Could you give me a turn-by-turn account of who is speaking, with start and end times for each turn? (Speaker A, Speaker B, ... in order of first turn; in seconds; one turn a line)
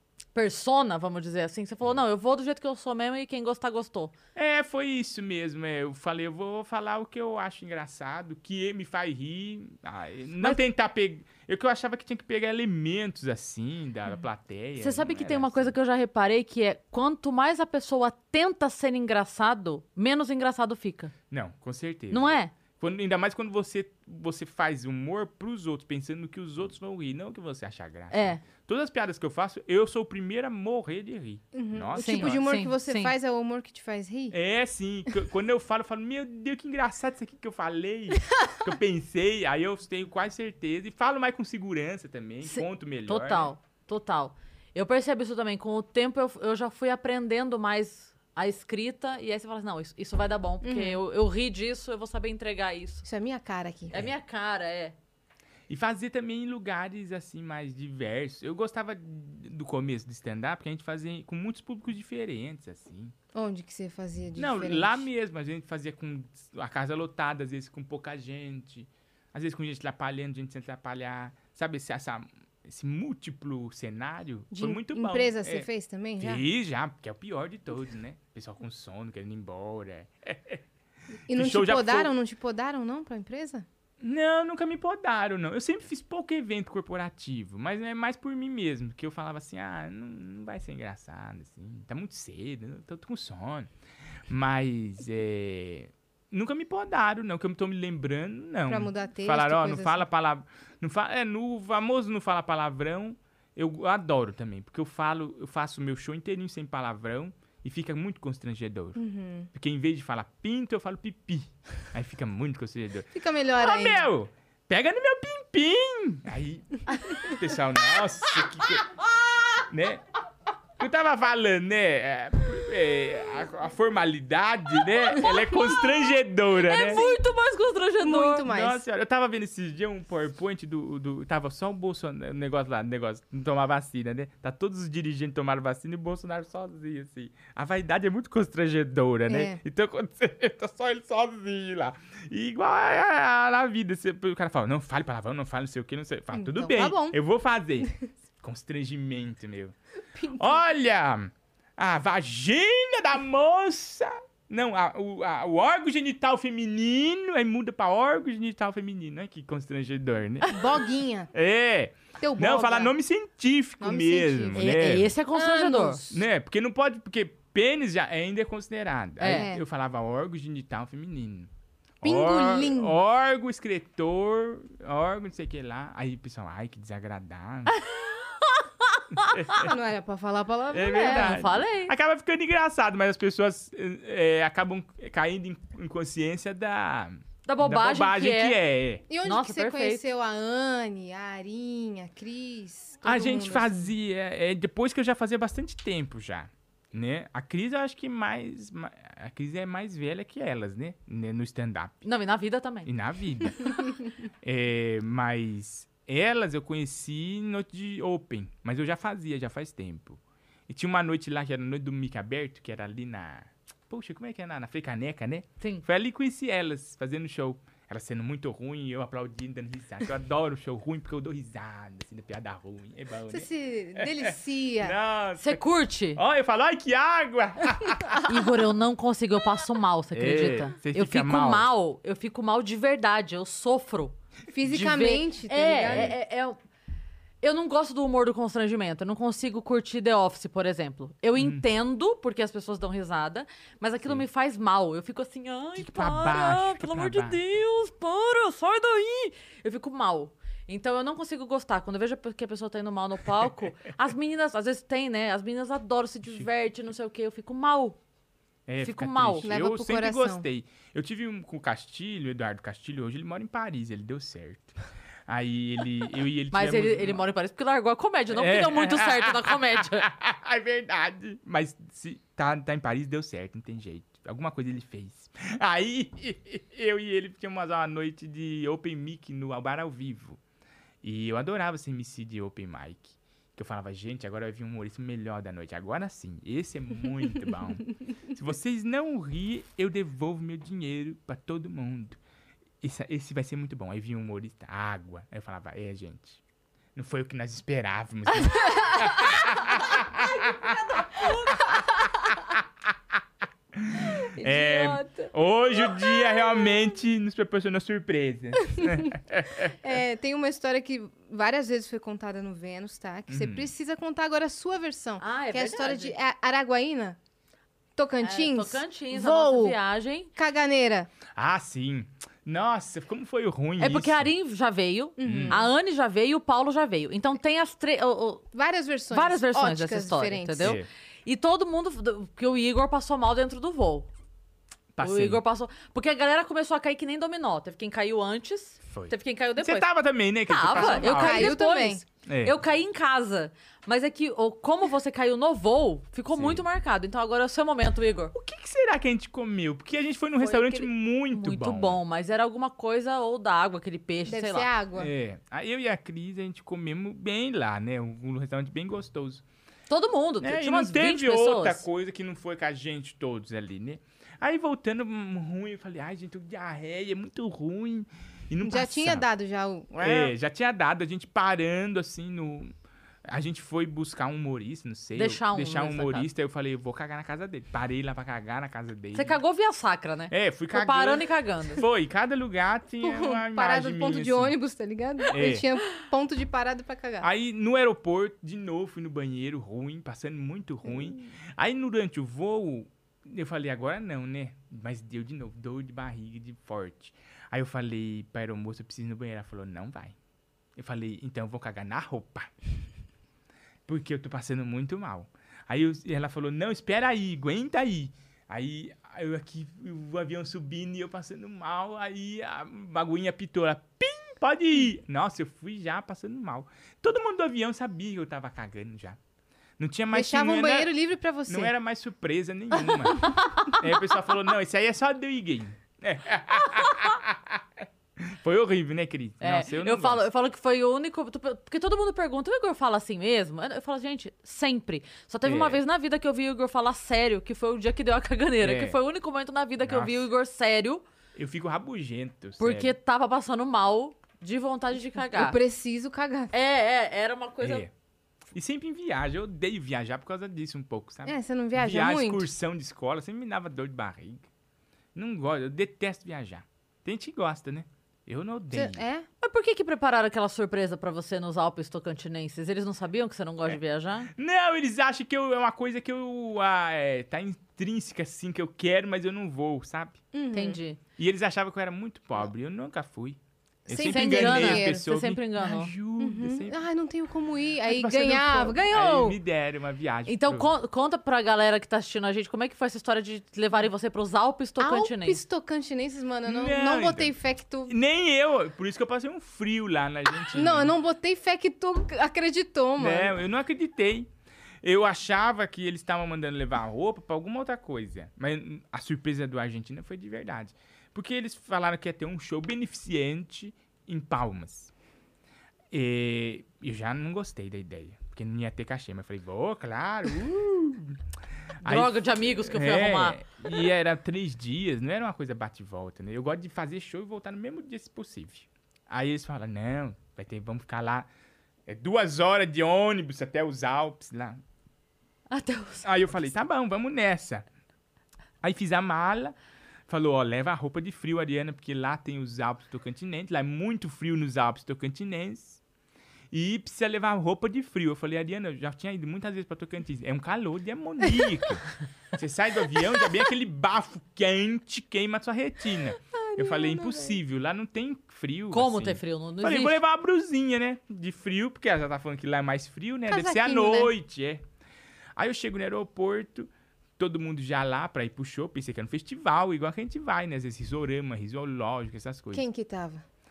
Speaker A: 0.3-4.1
Speaker B: 4.3-15.7
Speaker A: 14.8-21.1
Speaker B: 21.3-32.4
Speaker A: 22.1-22.5
Speaker A: 28.1-28.4
Speaker C: 31.5-34.4
Speaker A: 31.9-33.1
Speaker B: 34.3-43.5
Speaker A: 42.4-53.0
Speaker C: 50.6-51.0
Speaker C: 53.0-54.0
Speaker A: 53.9-54.9
Speaker B: 55.7-63.1
Speaker C: 63.3-65.0
Speaker B: 64.3-75.7
Speaker C: 74.5-76.4
Speaker B: 76.2-80.6
Speaker C: 81.3-83.7
Speaker B: 81.3-82.1
Speaker B: 84.0-93.7
Speaker B: 94.3-109.0
Speaker C: 98.7-100.0
Speaker C: 109.0-109.5
Speaker B: 109.5-118.9
Speaker C: 113.1-114.1
Speaker B: 119.7-120.0
Speaker B: 120.8-127.0
Speaker A: 126.6-128.5
Speaker C: 126.9-127.2
Speaker C: 128.0-128.8
Speaker B: 128.4-149.8
Speaker C: 139.3-139.6
Speaker C: 146.3-147.2
Speaker C: 150.1-150.6
Speaker B: 150.3-160.7
Speaker C: 160.4-161.3
Speaker B: 161.3-165.1
Speaker C: 162.2-162.9
Speaker C: 163.8-164.7
Speaker A: 164.6-166.0
Speaker C: 165.3-166.2
Speaker B: 166.1-171.5
Speaker A: 169.2-169.5
Speaker C: 169.2-169.6
Speaker B: 172.0-177.8
Speaker C: 172.0-172.9
Speaker A: 177.7-179.6
Speaker B: 179.2-179.7
Speaker C: 179.5-181.4
Speaker B: 180.7-189.1
Speaker A: 180.8-181.9
Speaker A: 187.4-188.6
Speaker C: 189.1-193.9
Speaker A: 189.2-190.0
Speaker B: 193.0-202.0
Speaker A: 202.0-202.9
Speaker B: 202.8-203.7
Speaker B: 204.4-225.6
Speaker A: 215.6-215.8
Speaker C: 223.3-224.9
Speaker A: 225.4-226.2
Speaker B: 226.1-228.3
Speaker A: 228.3-236.6
Speaker B: 230.1-231.7
Speaker C: 234.5-236.2
Speaker B: 235.8-236.2
Speaker A: 237.4-258.0
Speaker B: 241.3-241.6
Speaker B: 245.8-247.4
Speaker B: 258.7-267.2
Speaker A: 258.8-259.5
Speaker C: 259.4-260.4
Speaker A: 266.5-270.1
Speaker B: 268.3-280.4
Speaker B: 281.0-292.2
Speaker B: 292.8-296.4
Speaker B: 296.9-301.2
Speaker A: 299.7-302.2
Speaker B: 303.7-309.7
Speaker A: 304.4-305.3
Speaker C: 308.8-309.1
Speaker C: 309.8-317.2
Speaker B: 313.3-313.7
Speaker A: 315.2-316.2
Speaker C: 317.9-319.8
Speaker A: 318.2-320.3
Speaker C: 320.4-321.1
Speaker B: 321.3-324.3
Speaker A: 323.8-328.5
Speaker C: 325.2-325.7
Speaker B: 325.2-325.7
Speaker C: 328.5-330.8
Speaker A: 329.1-334.1
Speaker B: 330.6-330.9
Speaker B: 334.9-335.4
Speaker A: 335.0-339.9
Speaker B: 338.9-341.6
Speaker A: 340.4-348.3
Speaker C: 340.7-342.0
Speaker B: 342.2-342.6
Speaker B: 346.3-346.6
Speaker B: 348.3-352.0
Speaker C: 350.5-350.8
Speaker A: 351.3-354.7
Speaker C: 354.2-355.1
Speaker B: 354.9-359.4
Speaker A: 359.9-361.8
Speaker B: 360.4-369.3
Speaker C: 368.6-370.3
Speaker B: 370.0-372.7
Speaker B: 373.3-379.4
Speaker A: 375.1-376.3
Speaker A: 379.1-381.8
Speaker B: 380.3-384.6
Speaker C: 383.0-387.3
Speaker B: 385.3-385.6
Speaker B: 387.2-400.1
Speaker B: 400.8-402.5
Speaker B: 403.9-419.2
Speaker B: 419.8-420.9
Speaker C: 420.1-421.7
Speaker B: 421.4-427.6
Speaker B: 428.2-430.2
Speaker A: 429.4-441.0
Speaker B: 435.4-435.8
Speaker B: 438.6-439.0
Speaker B: 439.8-440.3
Speaker B: 441.3-442.9
Speaker A: 442.6-445.6
Speaker C: 445.3-446.5
Speaker A: 446.5-447.9
Speaker B: 447.6-447.9
Speaker B: 448.5-454.5
Speaker C: 451.2-452.4
Speaker B: 455.1-459.0
Speaker C: 458.7-459.3
Speaker A: 459.4-464.3
Speaker B: 464.3-470.2
Speaker C: 470.3-470.8
Speaker A: 470.5-471.0
Speaker B: 471.2-476.8
Speaker C: 473.9-475.1
Speaker A: 474.0-475.9
Speaker C: 476.2-479.4
Speaker B: 477.8-480.7
Speaker A: 480.3-485.4
Speaker C: 484.8-487.9
Speaker B: 486.4-490.9
Speaker C: 490.5-493.3
Speaker B: 493.0-494.3
Speaker B: 494.8-504.9
Speaker B: 505.9-511.2
Speaker B: 511.8-521.3
Speaker A: 511.8-513.4
Speaker B: 521.9-524.6
Speaker A: 525.5-526.1
Speaker B: 526.0-527.6
Speaker B: 528.6-529.5
Speaker B: 530.1-535.8
Speaker B: 536.5-554.6
Speaker C: 546.3-547.4
Speaker A: 548.7-550.0
Speaker C: 553.3-554.1
Speaker B: 555.4-562.6
Speaker C: 562.5-563.2